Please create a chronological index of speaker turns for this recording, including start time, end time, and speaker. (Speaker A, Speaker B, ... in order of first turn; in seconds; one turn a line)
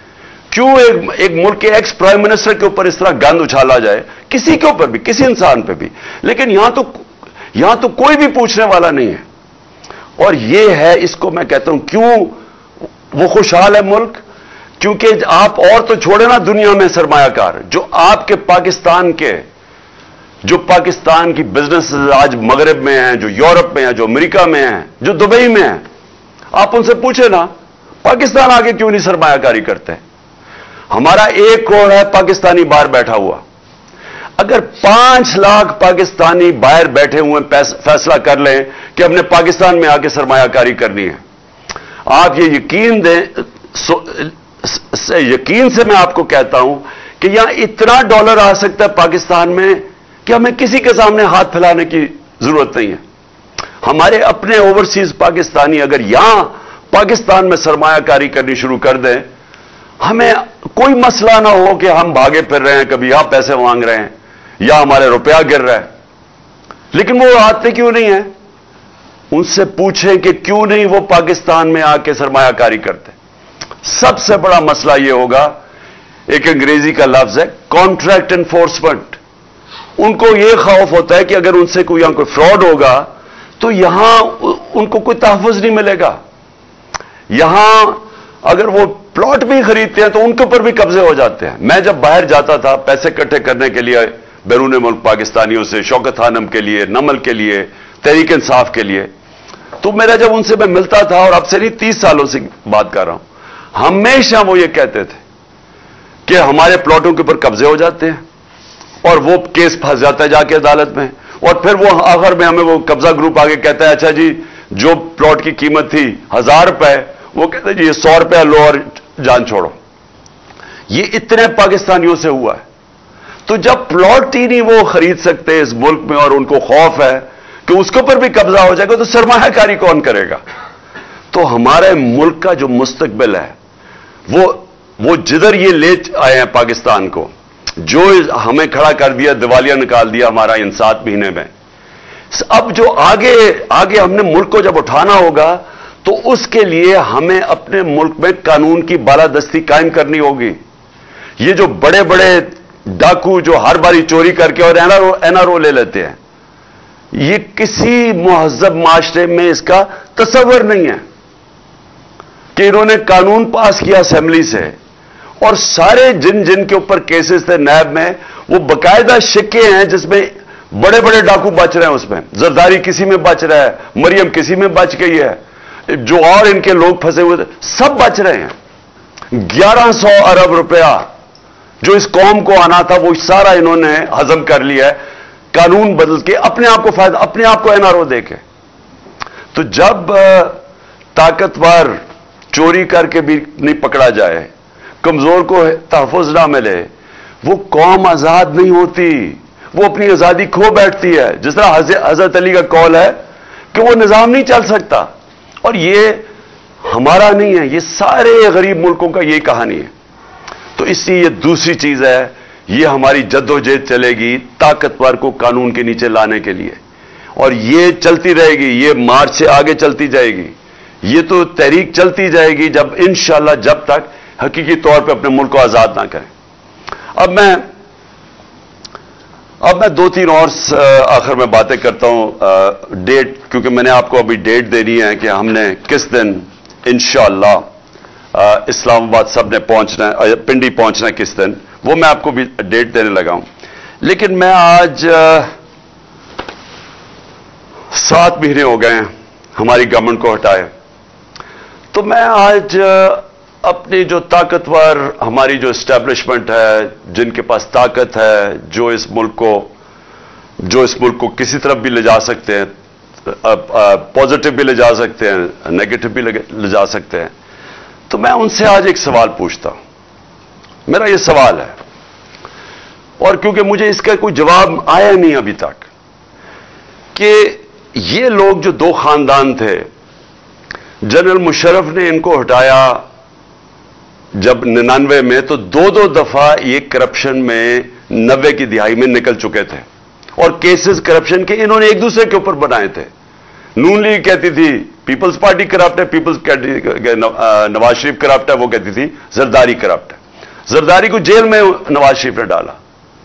Speaker A: 0.5-9.2
Speaker A: 10.2-12.4
Speaker A: 13.1-14.2
Speaker A: 14.8-19.4
Speaker A: 20.4-25.8
Speaker A: 26.5-27.5
Speaker A: 28.0-30.0
Speaker A: 30.9-33.4
Speaker A: 34.4-41.2
Speaker A: 42.1-53.0
Speaker A: 53.8-59.3
Speaker A: 60.0-65.9
Speaker A: 66.9-68.3
Speaker A: 69.3-73.2
Speaker A: 73.8-75.6
Speaker A: 76.3-79.2
Speaker A: 80.0-83.1
Speaker A: 83.6-86.2
Speaker A: 87.3-99.1
Speaker A: 99.8-103.2
Speaker A: 103.7-105.2
Speaker A: 106.3-108.2
Speaker A: 109.0-119.8
Speaker A: 120.9-122.6
Speaker A: 123.5-130.4
Speaker A: 131.3-133.5
Speaker A: 134.3-141.5
Speaker A: 142.3-150.6
Speaker A: 151.4-156.2
Speaker A: 157.1-161.0
Speaker A: 162.6-164.8
Speaker A: 165.4-178.5
Speaker A: 179.3-181.1
Speaker A: 181.8-185.0
Speaker A: 185.5-188.4
Speaker A: 189.5-190.6
Speaker A: 191.1-192.0
Speaker A: 192.5-194.5
Speaker A: 195.0-196.9
Speaker A: 197.4-203.2
Speaker A: 203.7-205.1
Speaker A: 205.6-206.2
Speaker A: 206.9-209.9
Speaker A: 210.8-216.8
Speaker A: 217.4-226.3
Speaker A: 227.2-227.6
Speaker A: 229.6-237.6
Speaker A: 238.3-243.5
Speaker A: 244.0-245.5
Speaker A: 247.9-250.7
Speaker A: 251.9-259.7
Speaker A: 260.6-262.7
Speaker A: 263.3-267.3
Speaker A: 268.1-269.8
Speaker A: 270.9-271.7
Speaker A: 273.2-275.9
Speaker A: 277.1-279.9
Speaker A: 281.0-283.0
Speaker A: 284.4-289.9
Speaker A: 290.4-293.1
Speaker A: 293.8-302.8